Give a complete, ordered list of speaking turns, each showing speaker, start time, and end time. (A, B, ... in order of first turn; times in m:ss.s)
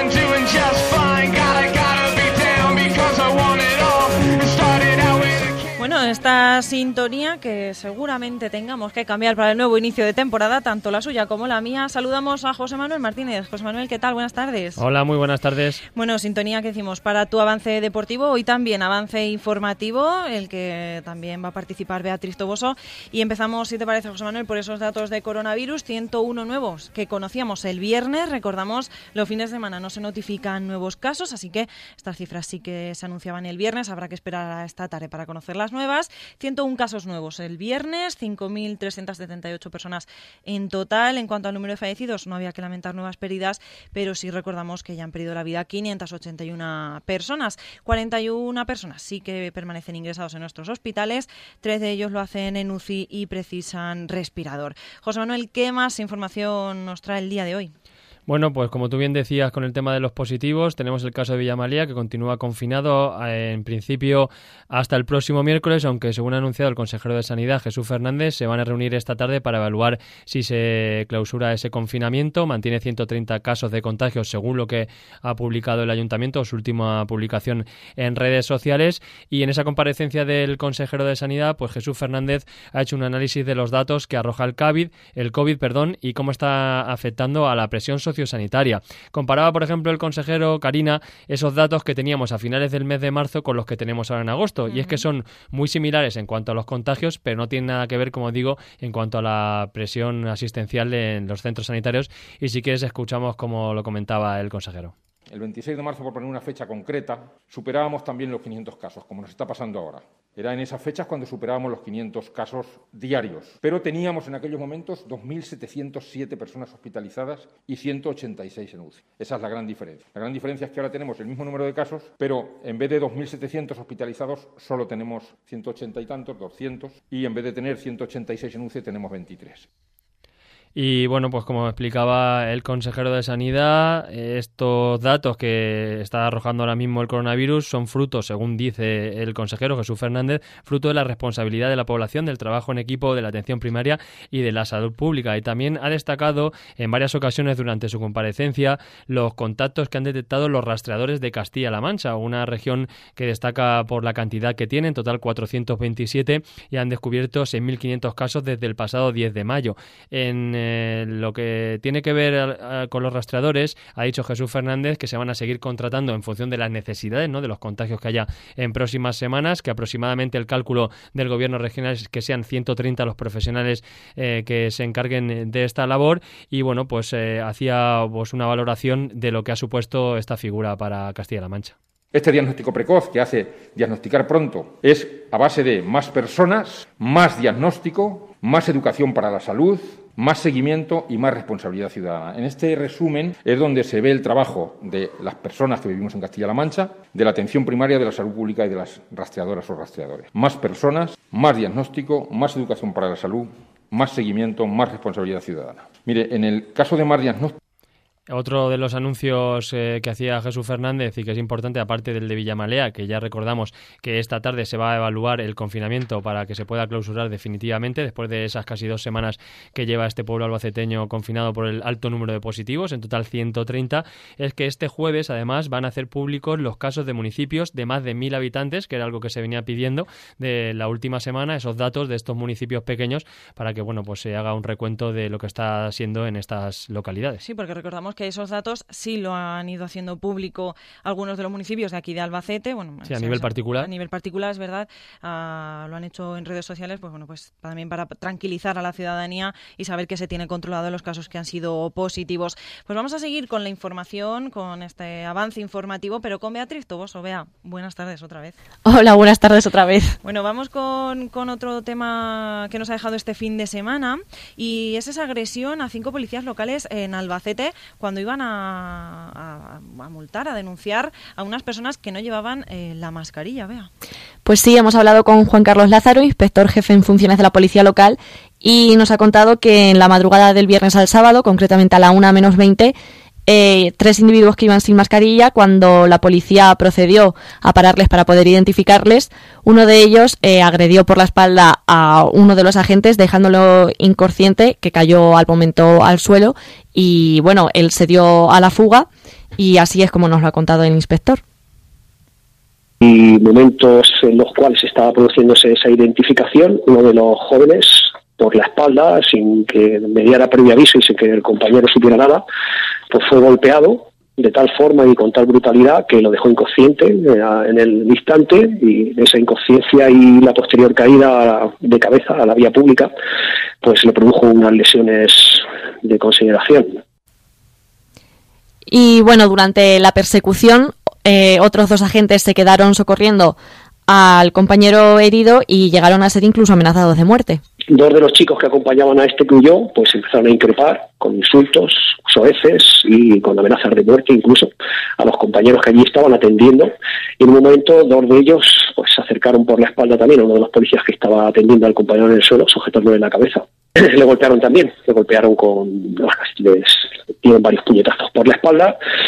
0:05.8-0:14.8 A
0:14.8-0:15.8 B
0:15.9-0:57.7 A
0:58.3-1:44.9 B
1:34.6-1:35.0 A
1:45.3-2:09.7 C
2:10.7-3:01.8 B
3:02.1-3:27.6 C
3:28.3-3:57.4 B
3:57.4-4:18.6 A
4:03.0-4:03.9 B
4:18.8-4:20.2 D
4:20.2-4:33.9 A
4:34.4-4:42.9 D
4:43.5-5:01.4 D
5:03.0-5:12.4 E
5:13.1-5:23.1 E
5:23.8-5:27.0 E
5:28.8-5:33.6 D
5:34.1-5:37.6 D
5:37.9-5:59.0 E